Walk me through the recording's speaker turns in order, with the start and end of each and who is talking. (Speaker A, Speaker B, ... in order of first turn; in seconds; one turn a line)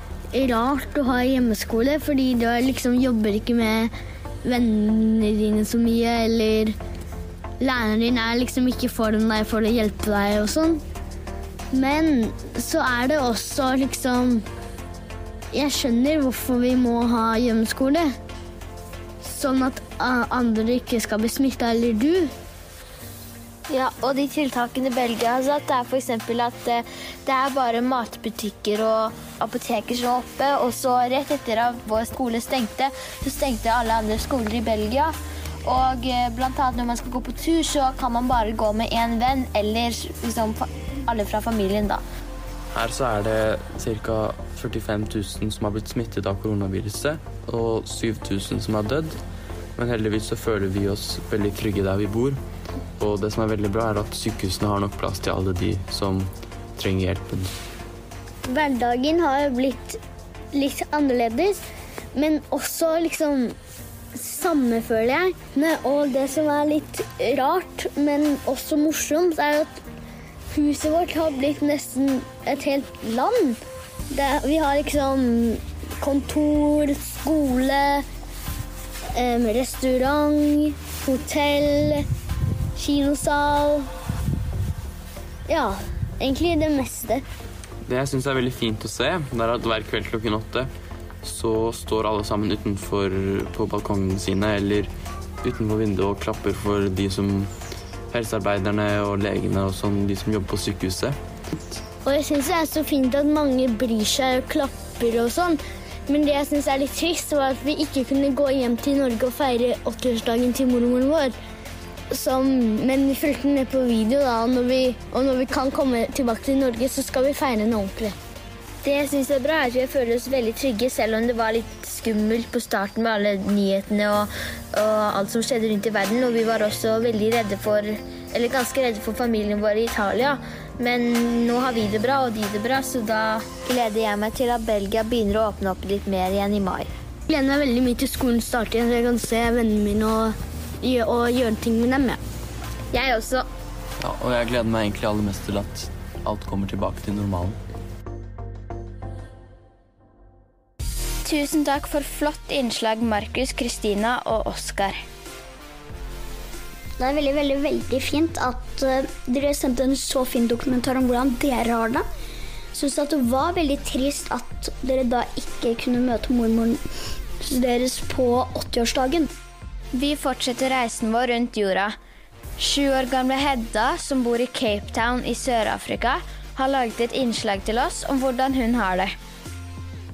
Speaker A: 0.3-3.9
Speaker A: 4.4-6.8
Speaker A: 7.6-10.8
Speaker A: 11.7-14.4
Speaker A: 15.5-18.2
Speaker A: 19.2-22.3
Speaker B: 23.7-42.0
Speaker C: 42.7-49.2
Speaker C: 49.8-52.4
Speaker C: 53.0-57.5
Speaker A: 58.5-60.0
Speaker A: 60.5-61.6
Speaker A: 62.1-63.6
Speaker A: 64.2-69.7
Speaker A: 70.5-73.6
Speaker A: 74.1-78.0
Speaker A: 79.2-82.0
Speaker A: 82.8-83.9
Speaker A: 85.5-87.2
Speaker C: 87.9-90.7
Speaker C: 91.2-94.9
Speaker C: 95.4-97.5
Speaker C: 98.1-101.2
Speaker A: 102.0-111.3
Speaker A: 112.1-118.2
Speaker B: 118.8-136.9
Speaker A: 137.3-142.2
Speaker B: 142.9-143.4
Speaker C: 144.0-147.6
Speaker D: 151.2-155.0
Speaker E: 157.0-162.1
Speaker E: 162.7-166.8
Speaker E: 167.4-169.3
Speaker D: 169.9-171.9
Speaker D: 172.6-179.1